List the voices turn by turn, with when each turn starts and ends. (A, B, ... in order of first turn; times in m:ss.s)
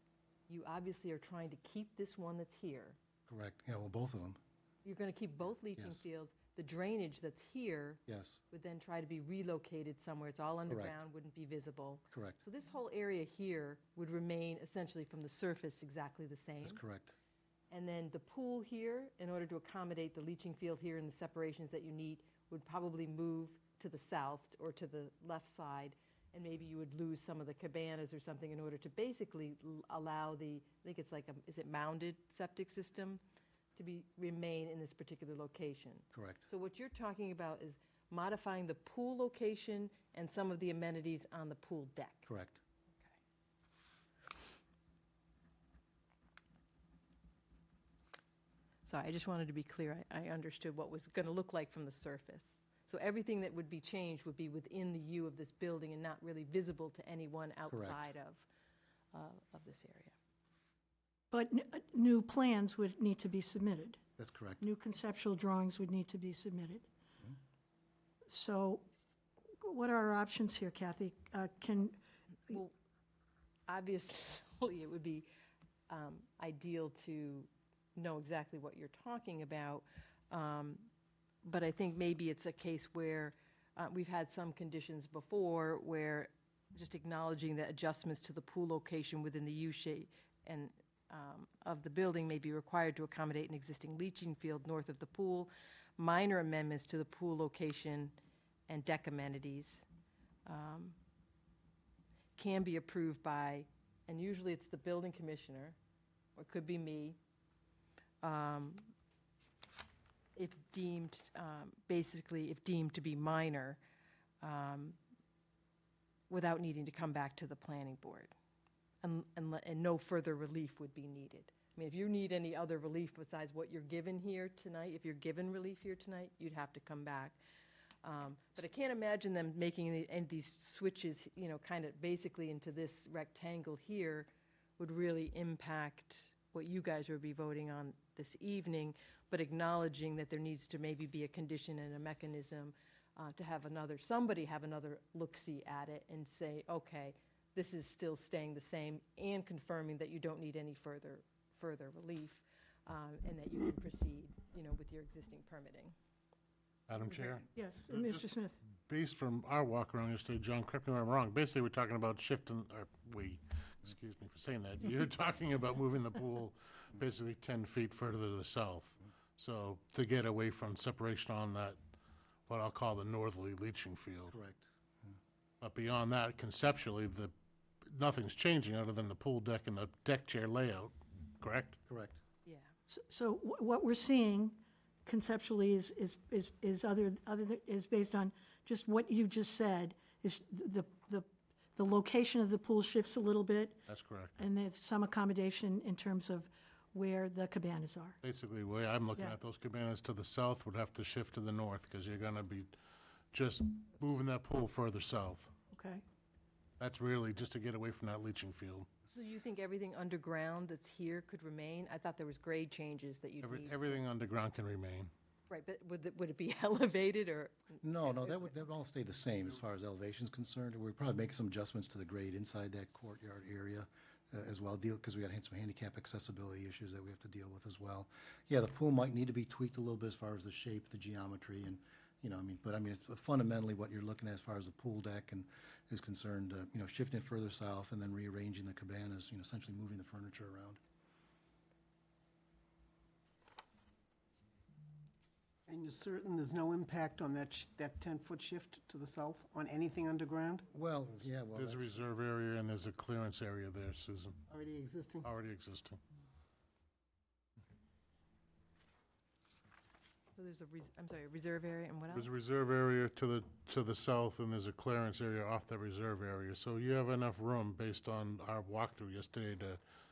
0:00.5-0:03.0 A
0:03.3-0:04.4 B
0:04.8-0:16.8 A
0:05.8-0:06.0 B
0:08.1-0:08.4 B
0:10.7-0:11.0 B
0:12.1-0:12.4 B
0:16.6-0:17.1 B
0:17.7-0:33.2 A
0:33.7-0:42.3 A
0:36.1-0:36.4 B
0:42.3-0:42.6 B
0:48.8-0:58.5 A
0:57.7-0:58.1 B
0:59.1-1:00.1 A
1:01.3-1:04.0 C
1:04.2-1:04.6 B
1:04.6-1:06.9 C
1:08.3-1:08.9 C
1:09.6-1:12.6 C
1:13.7-1:15.3 A
1:15.9-1:20.9 A
1:21.4-1:38.1 A
1:38.7-1:39.8 A
1:40.4-1:41.0 A
1:42.4-1:45.8 A
1:46.4-1:47.2 A
1:48.2-1:48.9 A
1:50.4-1:53.8 A
1:54.4-1:55.0 A
1:56.3-1:58.3 A
1:59.0-2:07.4 A
2:08.0-2:35.9 A
2:36.9-2:38.2 D
2:37.5-2:38.6 C
2:38.9-2:51.8 D
2:52.5-2:54.4 D
2:54.3-2:55.1 B
2:55.6-2:57.3 D
2:57.8-3:01.8 D
3:01.9-3:02.2 B
3:02.4-3:02.7 A
3:02.9-3:13.8 C
3:13.9-3:14.3 D
3:14.4-3:18.2 C
3:18.2-3:22.8 D
3:23.3-3:25.5 D
3:25.7-3:26.0 C
3:26.8-3:28.9 D
3:29.1-3:34.0 A
3:33.4-3:35.1 D
3:35.5-3:38.3 A
3:37.8-4:00.8 B
4:05.7-4:10.7 E
4:10.7-4:12.0 B
4:11.6-4:14.4 D
4:14.5-4:15.3 E
4:15.2-4:16.0 D
4:20.3-4:22.3 A
4:22.1-4:29.8 D